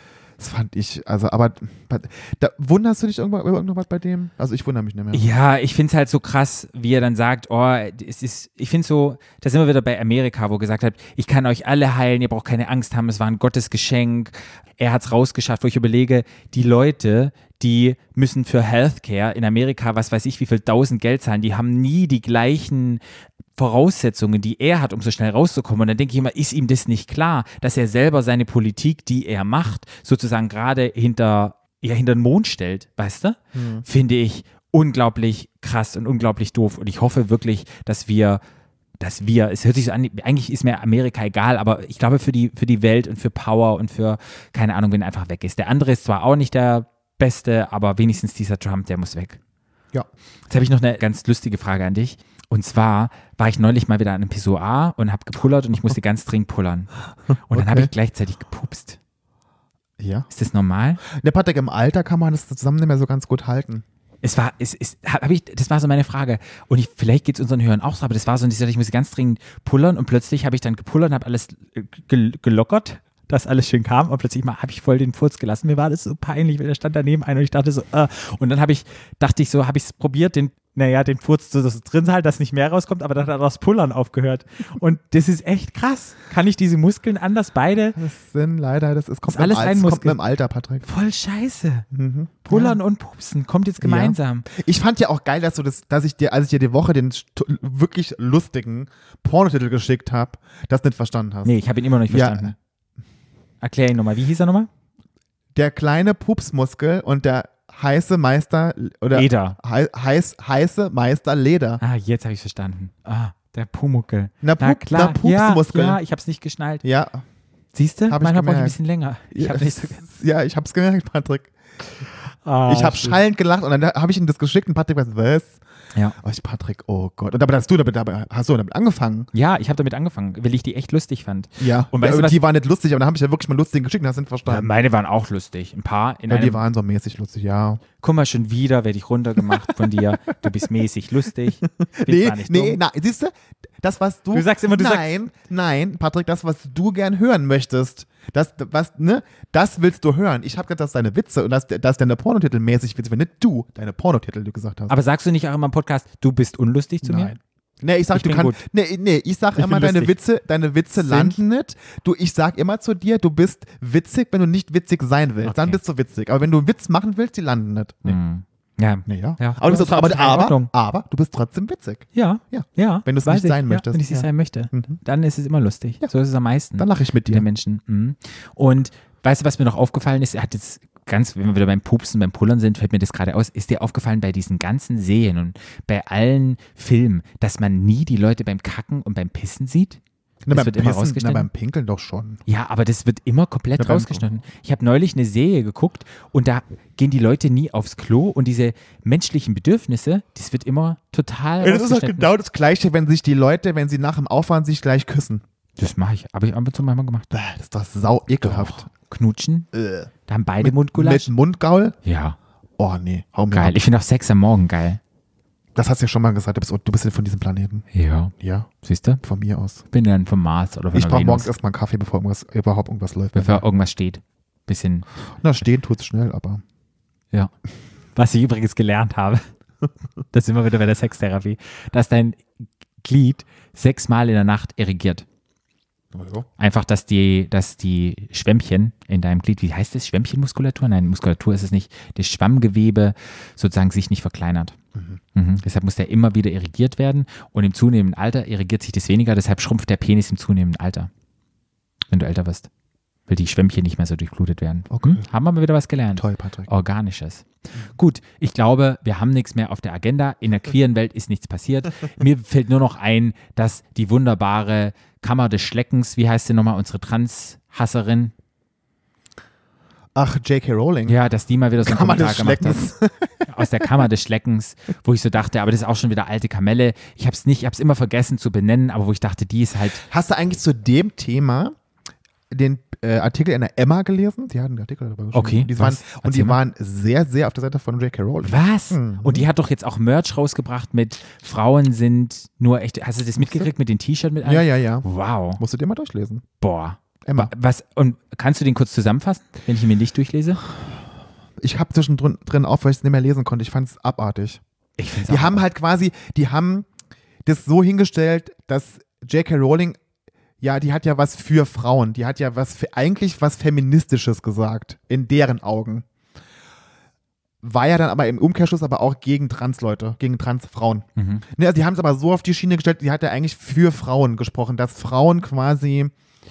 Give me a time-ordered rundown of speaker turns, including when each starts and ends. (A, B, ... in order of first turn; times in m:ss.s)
0:00.4-0:05.3 A
0:05.1-0:23.0 B
0:23.6-0:38.4 B
0:33.5-0:33.8 A
0:39.0-0:49.4 B
0:50.5-0:56.9 B
0:57.5-0:59.0 B
0:57.5-0:57.9 A
1:00.0-1:00.3 A
1:00.3-1:01.0 B
1:01.0-1:03.8 A
1:04.2-1:28.0 B
1:27.9-1:30.8 A
1:29.3-1:30.2 B
1:30.8-1:31.9 B
1:31.9-1:32.8 A
1:32.4-1:34.4 B
1:33.8-1:41.6 A
1:41.4-1:42.5 B
1:42.1-1:42.5 A
1:43.6-1:44.7 B
1:45.5-1:51.8 A
1:49.1-1:49.6 B
1:51.8-1:56.8 B
1:54.4-1:56.0 A
1:56.8-1:57.2 A
1:57.7-2:00.0 B
1:58.1-1:58.8 A
1:59.3-2:01.5 A
2:02.4-2:03.2 B
2:02.7-2:05.6 A
2:06.2-2:09.3 A
2:09.3-2:12.4 B
2:11.6-2:14.7 A
2:14.5-2:16.6 B
2:16.3-2:17.8 A
2:18.0-2:22.8 B
2:19.4-2:20.0 A
2:21.6-2:34.9 A
2:24.3-2:25.1 B
2:34.9-2:37.4 B
2:37.0-2:48.2 A
2:38.1-2:38.6 B
2:39.6-2:40.1 B
2:40.9-2:41.4 B
2:45.4-2:45.8 B
2:48.0-2:50.7 B
2:49.1-2:55.0 A
2:52.1-3:10.0 B
2:56.8-2:57.4 A
3:10.4-3:12.4 A
3:10.5-3:11.5 B
3:12.4-3:22.3 B
3:13.8-3:14.2 A
3:21.6-3:25.4 A
3:25.8-3:27.3 B
3:27.3-3:28.9 A
3:28.4-3:29.7 B
3:29.7-3:30.1 A
3:30.3-3:31.3 B
3:30.6-3:31.9 A
3:32.0-3:32.4 B
3:32.8-3:33.8 A
3:33.5-3:35.0 B
3:35.7-3:37.8 A
3:37.9-3:39.2 B
3:38.4-3:38.7 A
3:39.2-3:39.8 A
3:39.9-3:41.5 B
3:40.9-3:43.6 A
3:43.3-3:45.1 B
3:45.4-3:46.6 A
3:48.2-3:49.4 B
3:50.3-3:52.5 B
3:53.0-3:55.2 B
3:56.1-3:56.5 A
3:56.6-4:04.8 B
4:04.9-4:05.2 A
4:05.3-4:11.1 B
4:12.1-4:12.7 B
4:13.3-4:28.3 B
4:14.9-4:15.2 A
4:16.2-4:16.7 A
4:30.2-4:31.2 A
4:31.0-4:32.9 B
4:31.8-4:33.9 A
4:33.4-4:40.0 B
4:40.0-4:41.7 A
4:42.5-4:49.5 A
4:45.3-4:46.6 B
4:48.4-4:55.6 B
4:53.4-4:53.7 A
4:54.4-4:55.0 A
4:55.6-4:56.4 A
4:56.6-5:00.6 B
4:57.2-4:57.5 A
5:01.6-5:04.6 A
5:05.0-5:05.6 B
5:05.3-5:06.9 A
5:07.4-5:10.0 A
5:10.6-5:16.0 A
5:17.6-5:26.1 A
5:21.2-5:21.4 B